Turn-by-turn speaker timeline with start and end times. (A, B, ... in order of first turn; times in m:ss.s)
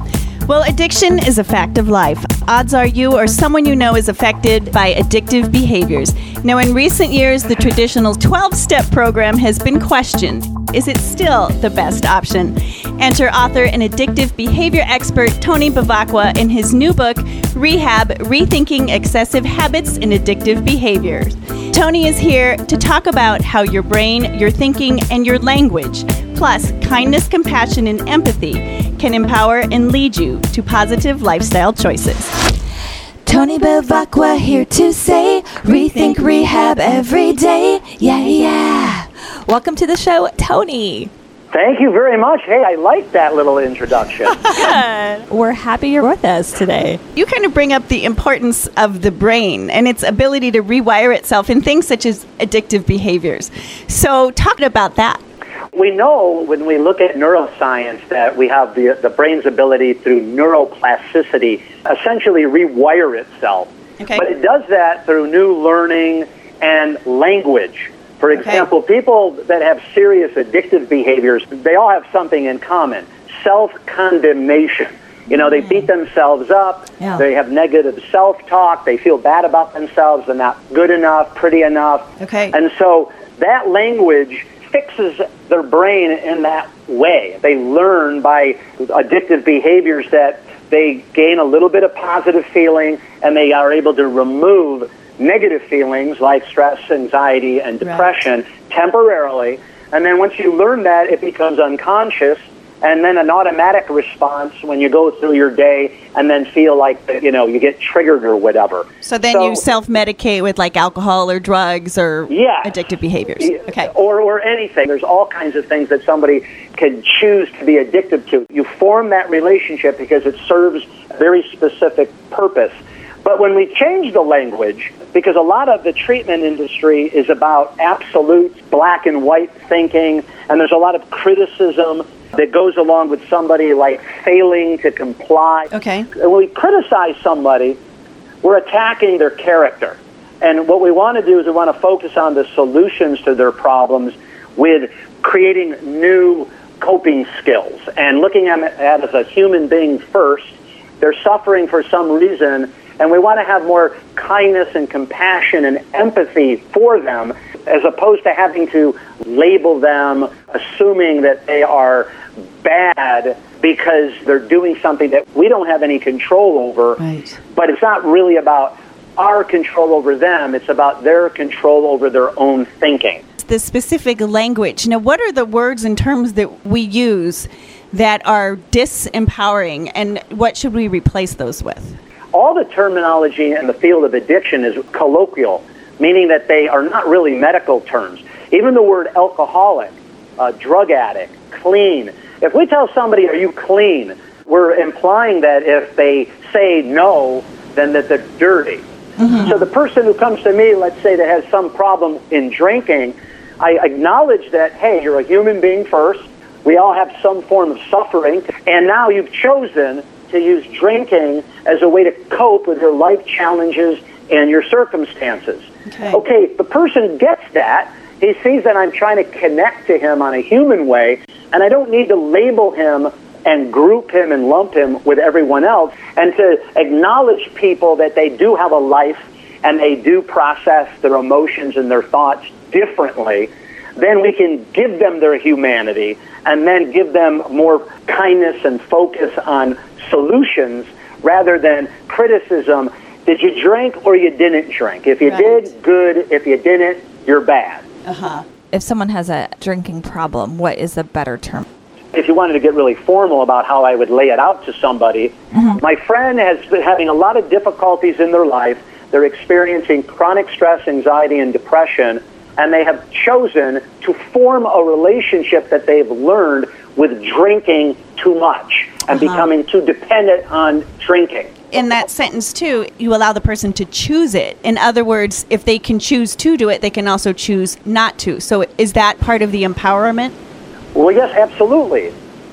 0:00.5-0:32.3 A
0:33.3-0:41.1 B
0:41.5-0:44.4 C
0:44.4-0:47.0 B
0:47.2-0:55.2 A
0:55.7-1:49.7 C
1:22.2-1:22.6 A
1:49.0-1:53.9 A
1:52.3-1:52.8 C
1:53.4-2:17.8 C
2:15.7-2:16.1 A
2:18.4-2:53.2 C
2:47.0-2:47.4 A
2:53.4-3:02.0 A
3:02.3-4:07.8 C
3:35.9-3:36.2 A
4:08.1-4:08.4 A
4:08.7-4:11.7 B
4:12.1-4:31.6 C
4:15.5-4:15.8 B
4:29.1-4:29.4 A
4:31.7-4:40.3 A
4:40.9-4:42.1 C